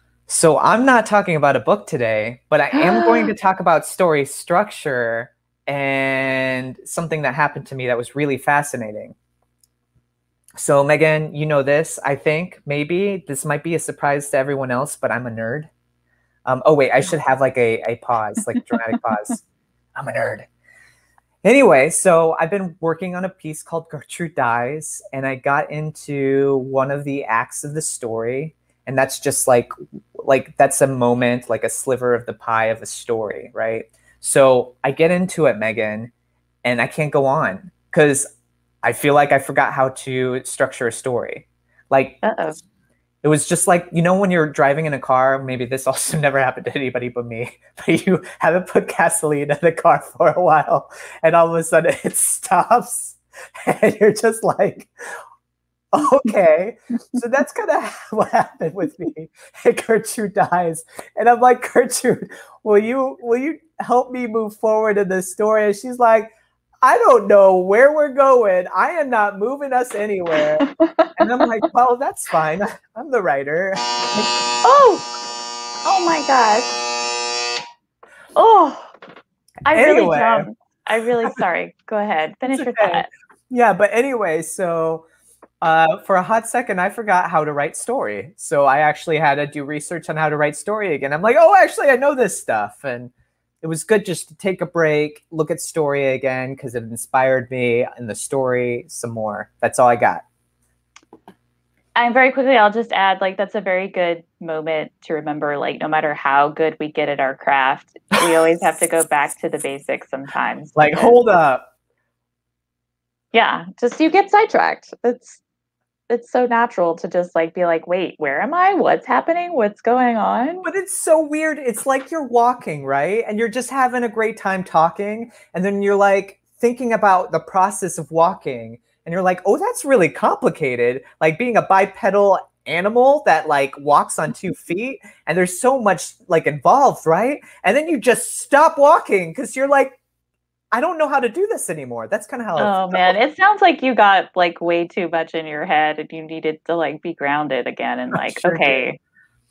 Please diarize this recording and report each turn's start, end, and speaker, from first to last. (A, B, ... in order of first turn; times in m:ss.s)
0:00.3-0:09.1 A
0:02.7-0:03.3 B
0:10.6-0:15.7 A
0:16.4-0:19.4 A
0:20.0-0:20.5 A
0:21.4-0:29.7 A
0:30.2-0:36.1 A
0:36.6-0:38.3 A
0:38.8-0:42.3 A
0:42.2-0:42.6 B
0:43.2-0:54.9 A
0:55.9-1:06.3 A
1:06.8-1:14.3 A
1:10.7-1:11.1 B
1:14.6-1:15.0 B
1:15.8-1:16.8 B
1:18.3-1:18.9 B
1:19.6-1:23.1 B
1:19.7-1:20.5 A
1:22.5-1:25.0 A
1:25.6-1:40.2 A
1:42.0-1:51.2 B
1:50.8-1:51.6 A
1:53.3-1:55.4 B
1:56.1-2:00.6 B
2:00.6-2:20.0 A
2:20.7-2:23.2 A
2:22.6-2:29.0 B
2:28.1-2:28.8 A